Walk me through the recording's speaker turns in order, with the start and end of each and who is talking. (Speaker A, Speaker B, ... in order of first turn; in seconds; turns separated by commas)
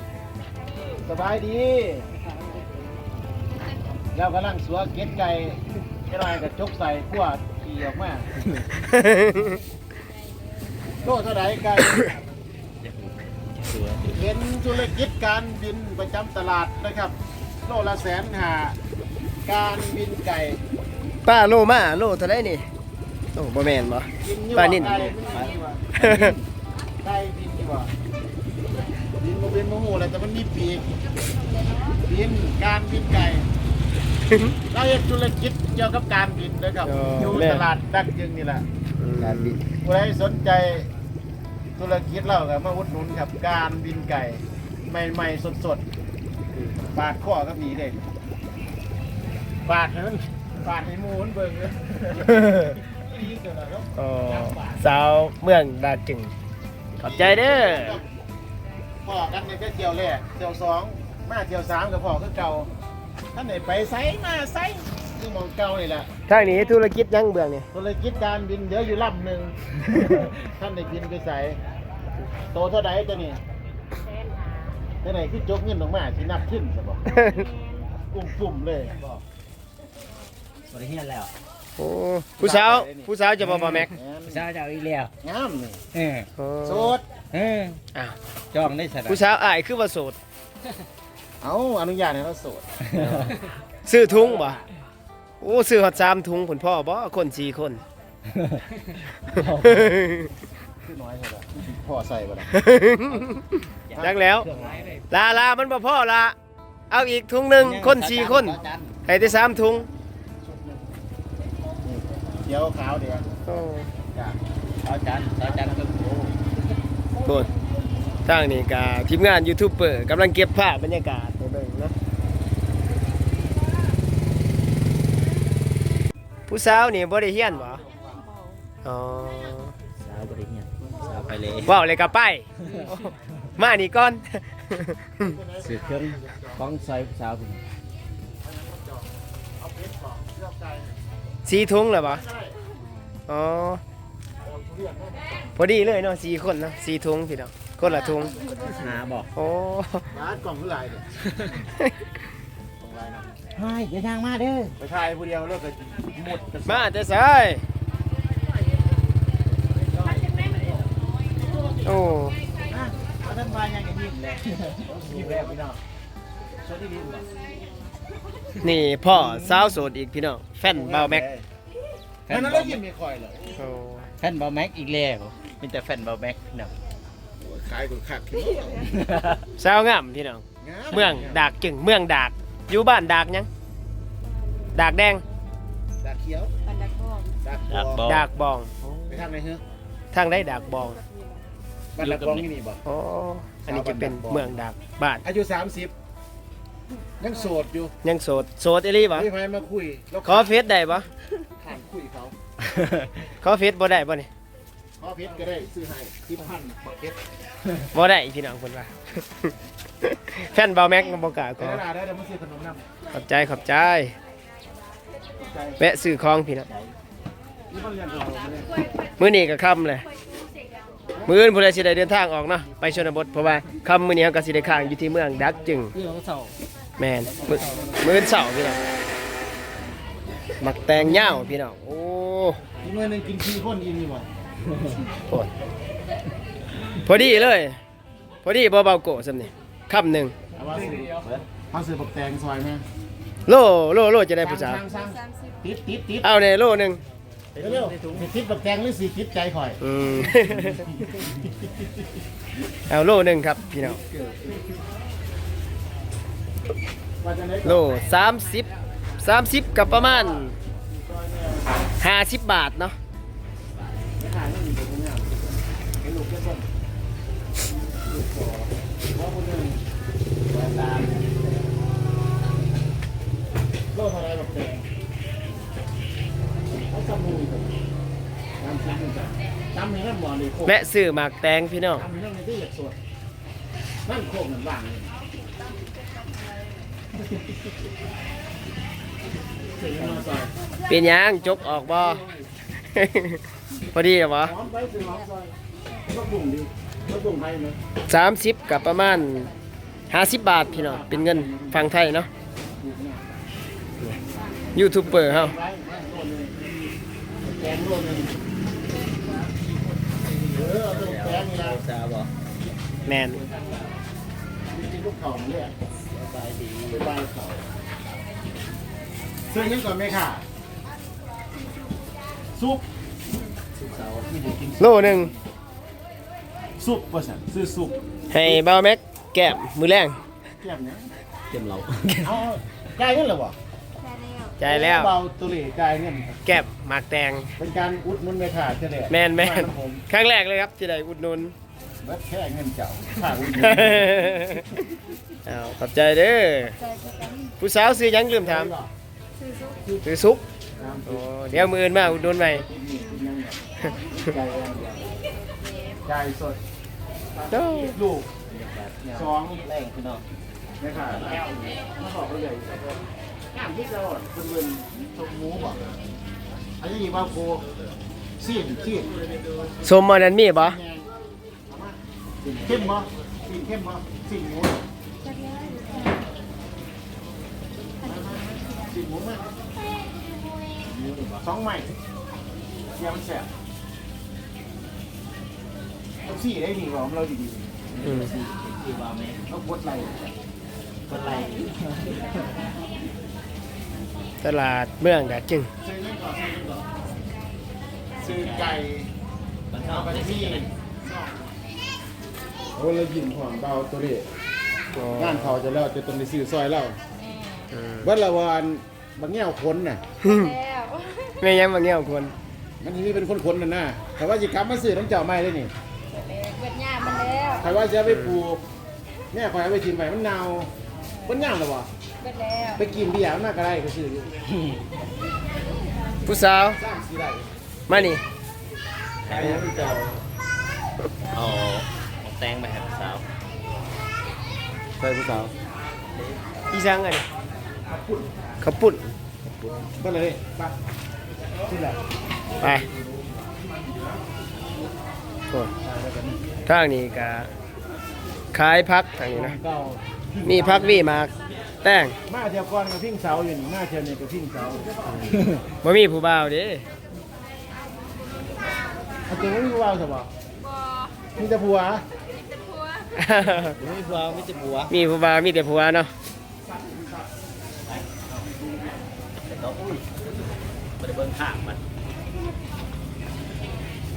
Speaker A: 1.0-2.1, Speaker A: 4.1-8.3, Speaker B: 8.9-9.6, Speaker A: 11.0-12.2, Speaker C: 12.8-14.2, Speaker A: 14.1-18.8, Speaker A: 19.4-20.6, Speaker B: 21.2-22.6, Speaker B: 23.3-25.0, Speaker A: 24.2-26.1, Speaker C: 24.8-26.4, Speaker B: 25.9-26.3, Speaker A: 27.0-27.9, Speaker A: 29.2-30.9, Speaker D: 31.4-31.9, Speaker A: 32.0-33.5, Speaker B: 34.3-34.5, Speaker A: 34.7-38.6, Speaker B: 36.8-37.6, Speaker B: 39.0-39.6, Speaker C: 39.2-39.6, Speaker A: 39.8-40.9, Speaker A: 41.8-45.8, Speaker A: 46.8-48.0, Speaker A: 49.6-54.8, Speaker B: 52.3-52.8, Speaker B: 54.0-56.3, Speaker B: 57.0-58.0, Speaker A: 57.0-58.0, Speaker A: 59.0-62.7, Speaker A: 63.3-66.1, Speaker B: 66.3-67.7, Speaker A: 67.7-71.6, Speaker A: 72.5-73.4, Speaker A: 75.0-77.0, Speaker B: 77.1-77.5, Speaker A: 78.1-79.0, Speaker C: 80.7-81.3, Speaker B: 81.8-83.9, Speaker A: 82.4-83.1, Speaker C: 83.4-85.1, Speaker A: 83.9-84.4, Speaker A: 85.2-85.8, Speaker C: 85.9-86.3, Speaker B: 86.4-86.9, Speaker A: 86.6-87.0, Speaker C: 87.3-87.8, Speaker C: 88.5-89.2, Speaker B: 89.0-90.2, Speaker A: 91.4-92.7, Speaker C: 92.8-93.4, Speaker B: 93.8-94.6, Speaker A: 94.0-94.6, Speaker B: 95.4-97.8, Speaker C: 98.3-98.6, Speaker C: 99.3-100.0, Speaker B: 99.6-100.3, Speaker A: 100.8-102.5, Speaker B: 102.5-104.5, Speaker C: 103.9-105.0, Speaker A: 104.0-104.6, Speaker B: 105.1-106.3, Speaker B: 106.9-109.9, Speaker C: 107.6-109.0, Speaker A: 110.4-110.9, Speaker A: 111.8-113.3, Speaker B: 113.5-113.9, Speaker A: 114.1-114.4, Speaker C: 114.8-116.3, Speaker B: 117.2-117.5, Speaker B: 118.2-121.9, Speaker B: 126.5-127.8, Speaker A: 127.8-128.2, Speaker B: 128.8-129.7, Speaker C: 130.0-131.8, Speaker B: 131.7-135.4, Speaker A: 135.2-136.8, Speaker C: 135.6-137.6, Speaker A: 138.4-140.9, Speaker B: 141.4-142.2, Speaker A: 142.0-142.6, Speaker B: 143.3-143.8, Speaker A: 144.4-145.6, Speaker B: 145.6-148.3, Speaker D: 148.5-148.8, Speaker C: 148.6-149.3, Speaker B: 149.3-150.1, Speaker A: 150.1-151.1, Speaker A: 152.8-153.2, Speaker C: 153.5-154.8, Speaker A: 154.8-156.2, Speaker C: 156.2-156.9, Speaker B: 156.7-157.6, Speaker C: 159.9-160.6, Speaker A: 161.4-162.1, Speaker B: 161.8-162.3, Speaker C: 162.7-165.6, Speaker A: 164.8-165.8, Speaker C: 166.6-167.3, Speaker B: 168.6-171.2, Speaker C: 169.1-169.7, Speaker A: 170.6-171.4, Speaker C: 172.3-172.8, Speaker A: 172.3-173.5, Speaker B: 173.6-174.1, Speaker C: 174.2-176.7, Speaker A: 177.4-178.9, Speaker C: 178.9-179.4, Speaker B: 179.6-183.5, Speaker A: 180.6-181.5, Speaker B: 184.7-185.2, Speaker A: 186.0-186.5, Speaker D: 186.7-187.3, Speaker A: 187.4-188.1, Speaker C: 187.7-188.2, Speaker B: 188.0-188.7, Speaker C: 188.8-189.2, Speaker A: 189.1-189.6, Speaker B: 190.1-191.0, Speaker A: 191.9-192.8, Speaker C: 192.0-192.4, Speaker B: 192.8-195.2, Speaker A: 193.7-194.5, Speaker A: 195.2-195.9, Speaker A: 197.2-197.9, Speaker B: 198.0-199.3, Speaker A: 199.1-200.6, Speaker B: 200.2-201.1, Speaker A: 201.6-202.3, Speaker B: 203.4-204.3, Speaker A: 205.0-207.2, Speaker B: 207.9-211.8, Speaker A: 211.6-212.8, Speaker B: 213.1-214.1, Speaker A: 215.4-215.8, Speaker B: 215.8-216.7, Speaker C: 216.7-216.9, Speaker A: 217.7-218.8, Speaker B: 218.8-220.0, Speaker B: 221.2-225.9, Speaker C: 225.9-226.5, Speaker B: 227.0-228.8, Speaker C: 227.2-228.0, Speaker B: 230.6-232.6, Speaker A: 231.0-231.4, Speaker A: 232.8-234.2, Speaker B: 236.9-237.8, Speaker B: 238.4-240.3, Speaker A: 240.5-242.8, Speaker C: 240.8-241.4, Speaker B: 243.5-244.8, Speaker A: 244.4-246.3, Speaker B: 246.2-247.0, Speaker C: 247.5-248.3, Speaker A: 247.6-249.8, Speaker B: 249.8-250.9, Speaker A: 250.9-251.8, Speaker B: 252.9-254.0, Speaker C: 253.8-254.6, Speaker A: 257.2-257.8, Speaker B: 257.6-258.7, Speaker B: 259.2-260.6, Speaker A: 259.8-261.7, Speaker B: 262.0-262.9, Speaker A: 264.2-266.6, Speaker A: 267.9-269.8, Speaker A: 270.5-271.3, Speaker A: 273.9-274.8, Speaker A: 276.9-277.8, Speaker A: 278.6-280.8, Speaker B: 280.6-282.1, Speaker A: 282.0-282.9, Speaker A: 284.1-285.1, Speaker A: 289.7-290.5, Speaker B: 290.9-292.2, Speaker A: 292.0-292.4, Speaker B: 292.9-293.4, Speaker B: 293.9-294.5, Speaker A: 294.4-295.5, Speaker A: 296.1-297.8, Speaker B: 298.1-299.5, Speaker B: 300.1-302.3, Speaker A: 300.5-302.0, Speaker A: 302.8-303.4, Speaker B: 304.7-305.5, Speaker A: 305.0-306.5, Speaker A: 307.4-308.3, Speaker C: 310.4-312.3, Speaker A: 310.5-311.8, Speaker B: 313.1-313.4, Speaker A: 314.7-315.7, Speaker C: 316.1-317.1, Speaker A: 316.9-317.6, Speaker A: 319.5-320.4, Speaker A: 322.6-322.8, Speaker C: 323.8-324.5, Speaker A: 324.2-325.3, Speaker B: 324.8-325.3, Speaker A: 326.8-328.6, Speaker B: 328.3-330.2, Speaker A: 330.6-331.1, Speaker C: 331.5-332.4, Speaker A: 332.2-333.5, Speaker B: 334.6-335.1, Speaker A: 334.6-336.5, Speaker B: 336.4-337.5, Speaker A: 337.6-340.0, Speaker B: 339.1-341.5, Speaker A: 342.0-344.5, Speaker B: 343.6-344.8, Speaker B: 345.4-346.8, Speaker D: 347.0-347.4, Speaker B: 347.6-348.7, Speaker A: 348.4-348.9, Speaker B: 350.0-350.4, Speaker A: 350.8-353.6, Speaker B: 351.1-352.6, Speaker C: 354.1-355.0, Speaker A: 356.1-356.6, Speaker B: 357.5-358.0, Speaker A: 357.8-358.3, Speaker C: 358.5-360.2, Speaker A: 359.1-359.6, Speaker A: 360.8-365.8, Speaker A: 366.8-367.6, Speaker A: 368.4-369.1, Speaker B: 369.8-370.8, Speaker A: 370.6-371.1, Speaker A: 371.7-372.0, Speaker A: 372.5-374.8, Speaker D: 375.3-376.1, Speaker A: 378.0-379.4, Speaker C: 380.8-381.4, Speaker A: 381.4-381.9, Speaker A: 382.9-383.5, Speaker A: 386.2-387.7, Speaker C: 387.9-389.4, Speaker B: 388.0-388.3, Speaker A: 389.5-390.3, Speaker C: 391.1-392.2, Speaker B: 394.4-395.7, Speaker A: 395.8-396.9, Speaker A: 398.2-399.1, Speaker C: 398.2-398.8, Speaker C: 399.7-400.6, Speaker A: 399.8-401.4, Speaker A: 402.8-404.2, Speaker B: 404.9-405.6, Speaker A: 405.1-407.0, Speaker B: 407.7-408.1, Speaker A: 408.0-410.0, Speaker B: 410.2-410.6, Speaker D: 410.6-411.3, Speaker B: 411.4-412.3, Speaker A: 412.8-415.7, Speaker D: 416.2-417.6, Speaker A: 417.6-418.6, Speaker B: 418.1-418.4, Speaker A: 419.3-420.7, Speaker A: 421.2-421.9, Speaker D: 422.2-422.8, Speaker A: 422.7-424.3, Speaker C: 424.5-424.8, Speaker B: 426.2-426.8, Speaker A: 426.8-427.5, Speaker B: 427.9-428.2, Speaker C: 429.2-430.2, Speaker B: 429.3-429.7, Speaker C: 431.3-433.2, Speaker C: 435.0-435.5, Speaker B: 436.7-437.2, Speaker A: 437.9-438.3, Speaker B: 438.6-439.1, Speaker C: 439.4-439.9, Speaker A: 440.0-440.7, Speaker A: 441.6-442.0, Speaker B: 442.6-442.9, Speaker A: 445.8-446.3, Speaker B: 446.6-447.5, Speaker B: 448.5-449.6, Speaker A: 449.3-451.3, Speaker B: 450.4-451.3, Speaker B: 451.8-452.1, Speaker A: 452.3-455.4, Speaker C: 455.2-455.6, Speaker B: 455.8-456.8, Speaker A: 459.3-460.3, Speaker A: 461.4-462.0, Speaker B: 463.2-463.8, Speaker C: 463.8-464.9, Speaker B: 464.9-466.1, Speaker C: 467.9-468.4, Speaker C: 469.4-470.1, Speaker C: 471.0-471.8